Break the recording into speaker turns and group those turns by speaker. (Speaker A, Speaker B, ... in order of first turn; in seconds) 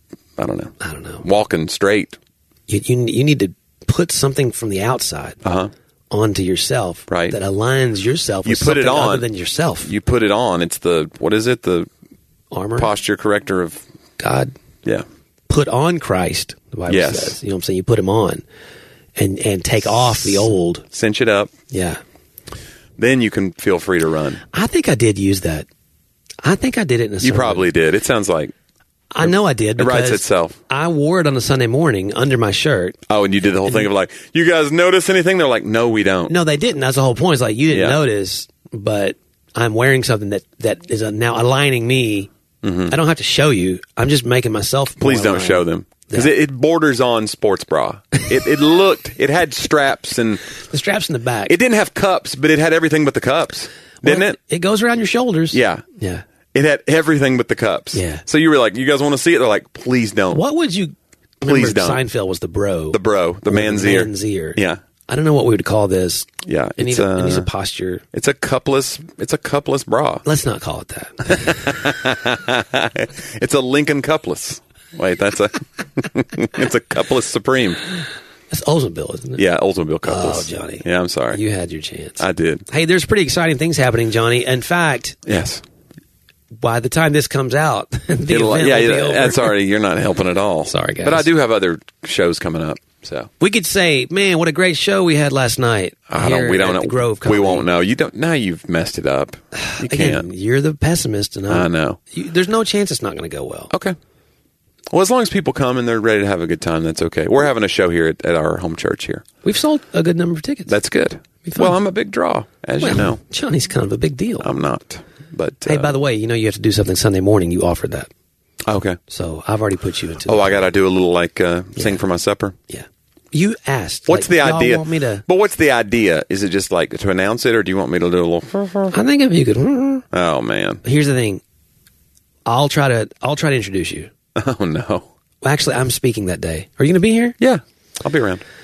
Speaker A: 0.4-2.2, 5.4-5.7, 7.1-7.4, 8.4-9.3, 9.8-11.9, 12.8-13.8, 16.9-17.4, 19.9-21.5, 23.0-24.4, 27.2-28.5, 29.2-30.6, 33.1-36.3, 37.7-38.0, 42.6-43.0, 45.0-50.4, 51.5-54.4, 55.5-55.8, 56.5-60.4, 61.4-62.0, 62.9-64.8, 66.4-67.5, 68.1-70.2, 71.2-77.8, 79.4-81.4, 82.2-82.7, 85.2-85.6, 88.3-93.3, 96.1-100.3, 101.5-102.0, 103.7-104.0, 104.9-109.2, 110.7-113.2, 114.4-116.0, 118.6-119.0, 120.2-122.6, 124.1-128.9, 130.1-130.8, 134.3-135.1, 137.4-138.4
Speaker B: 0.8-1.2, 2.7-5.4, 6.1-9.9, 12.5-12.9, 14.2-14.5, 15.5-18.4, 19.2-20.8, 21.7-22.0, 24.5-25.7, 26.4-27.7, 29.1-33.0, 36.3-42.3, 42.9-46.3, 50.6-51.5, 54.0-56.2, 57.9-58.2, 60.3-68.0, 70.2-71.8, 78.5-79.4, 80.0-85.2, 86.6-89.5, 90.7-91.3, 93.4-97.7, 99.5-103.7, 109.4-110.8, 111.4-111.8, 112.8-114.5, 115.6-118.1, 119.1-120.6, 121.8-122.0, 122.7-125.2, 128.9-130.0, 130.8-131.4, 132.4-134.1, 135.4-137.3